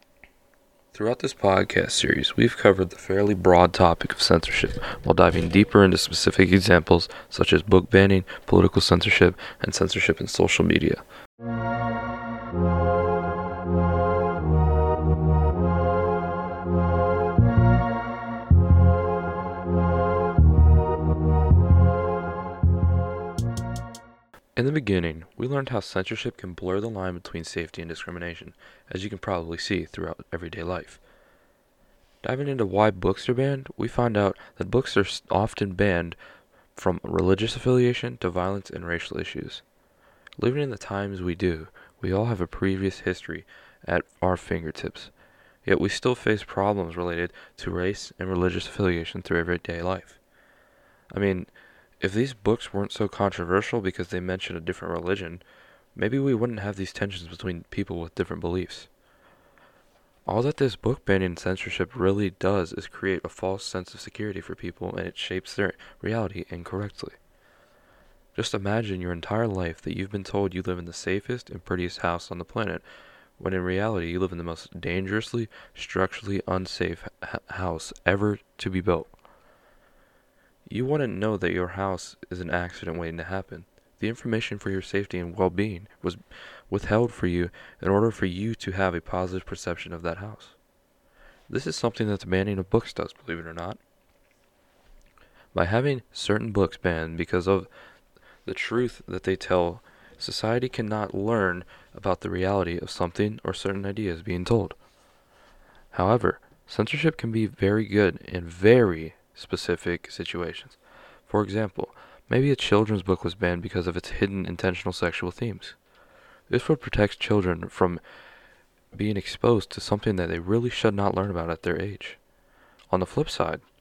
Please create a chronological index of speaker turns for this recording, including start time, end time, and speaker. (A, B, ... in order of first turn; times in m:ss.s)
0:00.9-0:11.0 A
0:24.6-0:31.0 A
0:32.2-0:36.2 A
0:36.7-0:39.6 A
0:40.4-0:45.1 A
0:45.6-0:50.2 A
0:51.1-0:55.4 A
0:55.9-0:58.9 A
1:00.2-1:07.2 A
1:08.3-1:12.8 A
1:13.4-1:19.1 A
1:20.7-1:30.6 A
1:31.5-1:33.8 A
1:35.5-1:37.7 A
1:38.4-1:44.8 A
1:45.9-1:55.8 A
1:56.5-1:58.0 A
1:58.9-2:02.2 A
2:02.9-2:03.6 A